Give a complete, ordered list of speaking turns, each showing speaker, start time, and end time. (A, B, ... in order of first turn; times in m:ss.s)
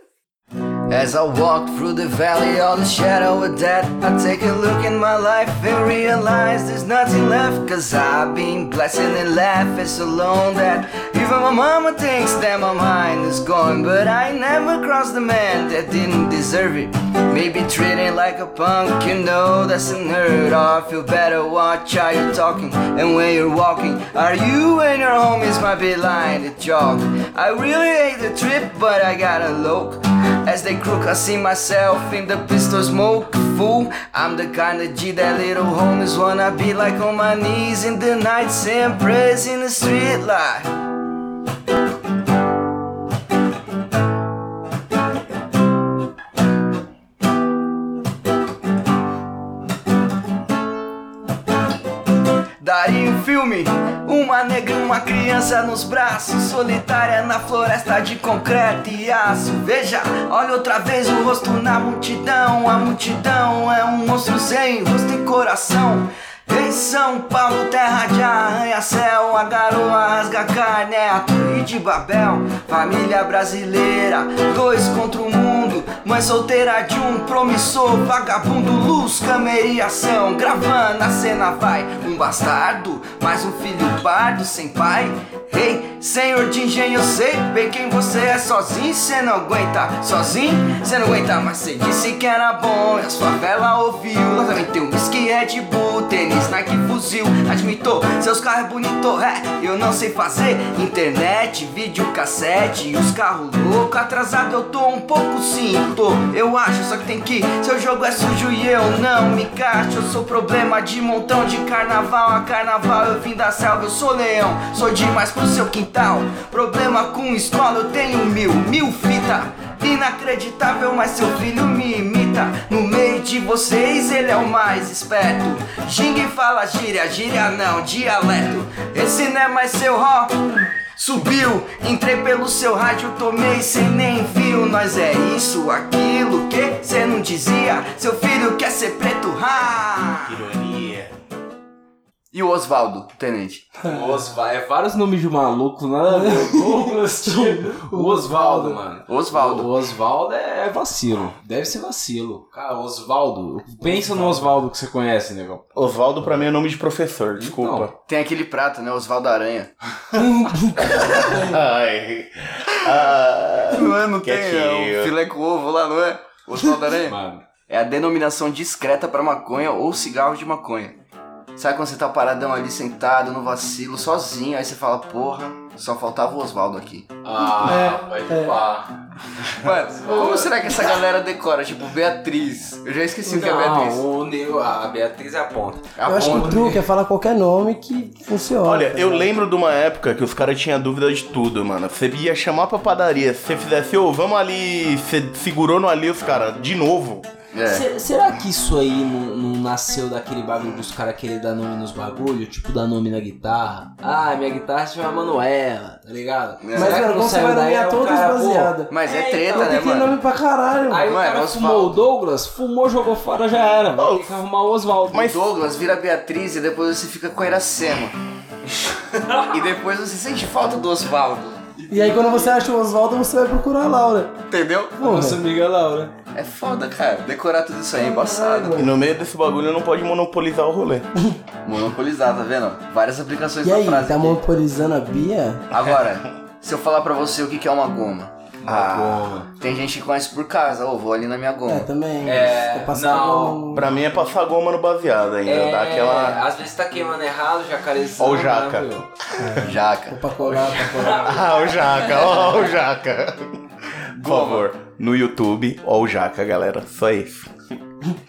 0:00.9-0:40.7 A
0:52.6-2:10.3 A
2:11.0-2:20.4 A
2:20.2-2:21.1 B
2:22.3-2:23.7 A
2:23.8-2:35.6 C
2:26.1-2:28.8 D
2:29.1-2:29.7 A
2:33.8-2:34.5 D
2:35.7-2:37.9 B
2:37.4-2:37.9 C
2:38.1-2:39.7 A
2:40.1-2:41.6 D
2:41.0-2:45.1 B
2:43.7-2:47.2 A
2:47.0-2:47.4 C
2:47.7-2:51.0 A
2:51.6-2:57.1 A
2:57.2-2:59.0 C
2:57.6-2:58.6 D
2:59.6-3:04.0 A
3:03.2-3:06.8 C
3:06.0-3:06.8 A
3:06.0-3:09.3 D
3:08.6-3:17.3 B
3:17.5-3:17.8 A
3:17.7-3:29.8 C
3:26.6-3:27.0 A
3:26.7-3:28.9 D
3:28.9-3:30.2 A
3:29.5-3:31.1 D
3:30.9-3:35.3 C
3:31.1-3:32.0 A
3:34.0-3:34.4 B
3:35.1-3:35.4 B
3:35.2-3:38.2 A
3:39.2-3:39.5 C
3:39.4-3:41.6 A
3:41.8-3:42.6 C
3:41.9-3:44.4 D
3:44.5-3:44.9 A
3:45.0-3:45.4 D
3:45.0-3:46.1 C
3:46.3-3:48.8 A
3:47.9-3:48.9 D
3:48.7-3:51.1 B
3:51.6-3:54.4 A
3:53.6-3:55.6 D
3:55.7-3:58.3 A
3:58.6-3:59.5 C
3:58.6-3:59.3 B
3:59.6-4:01.9 A
4:01.7-4:03.9 D
4:02.2-4:03.8 C
4:03.7-4:06.4 B
4:05.4-4:09.1 C
4:08.2-4:09.6 B
4:09.4-4:11.6 D
4:09.6-4:10.2 A
4:10.4-4:12.4 C
4:11.2-4:17.5 B
4:14.2-4:14.7 A